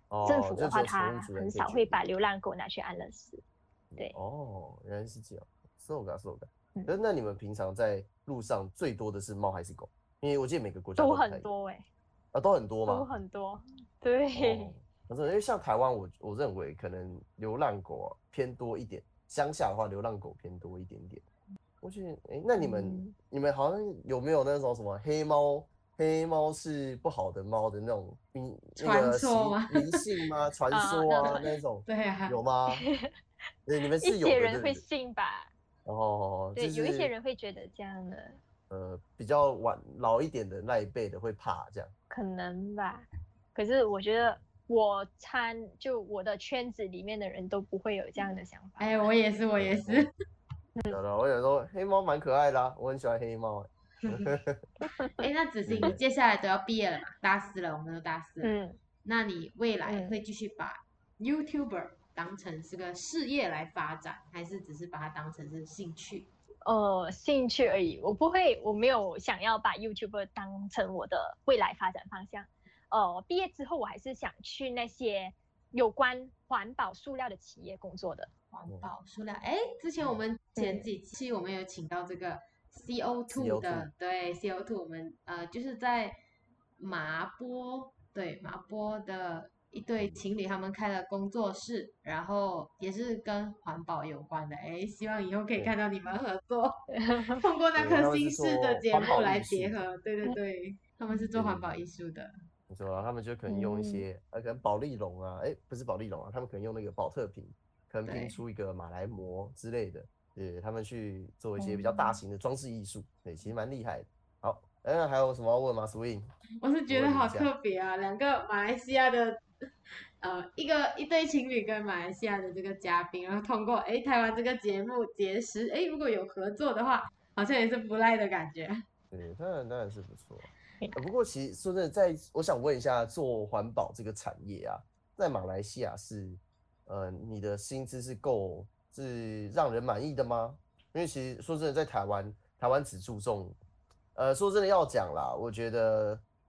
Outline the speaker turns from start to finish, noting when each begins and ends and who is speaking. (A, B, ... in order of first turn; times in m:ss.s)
0:00.1-0:02.0 A
0:00.2-0:03.4 B
0:03.9-0:11.5 A
0:11.0-0:11.9 B
0:12.3-0:13.1 A
0:12.9-0:14.7 B
0:14.4-0:21.2 A
0:21.8-0:32.8 A
0:22.6-0:23.1 B
0:28.8-0:30.0 C
0:30.7-0:31.4 B
0:31.2-0:32.4 C
0:32.7-0:33.1 B
0:33.7-0:34.8 A
0:34.0-0:35.5 B
0:35.9-0:37.1 A
0:36.6-0:38.4 B
0:38.7-0:41.9 A
0:42.1-0:49.0 B
0:48.8-0:50.1 C
0:49.6-0:50.0 A
0:50.9-0:54.6 A
0:54.8-0:55.3 B
0:55.2-0:58.5 C
0:55.7-0:56.0 A
0:58.4-0:58.8 B
0:59.0-1:06.3 C
0:59.8-1:00.2 B
1:06.6-1:18.3 B
1:18.5-1:26.2 C
1:20.6-1:20.8 B
1:23.3-1:23.9 A
1:26.8-1:42.3 C
1:36.9-1:37.4 B
1:37.8-1:39.8 A
1:41.4-1:41.8 A
1:42.7-1:56.3 A
1:43.5-1:44.0 B
1:48.1-1:48.4 C
1:51.6-1:52.2 B
1:56.6-2:08.8 C
1:56.9-1:57.5 A
2:09.1-2:23.6 A
2:24.2-2:26.2 A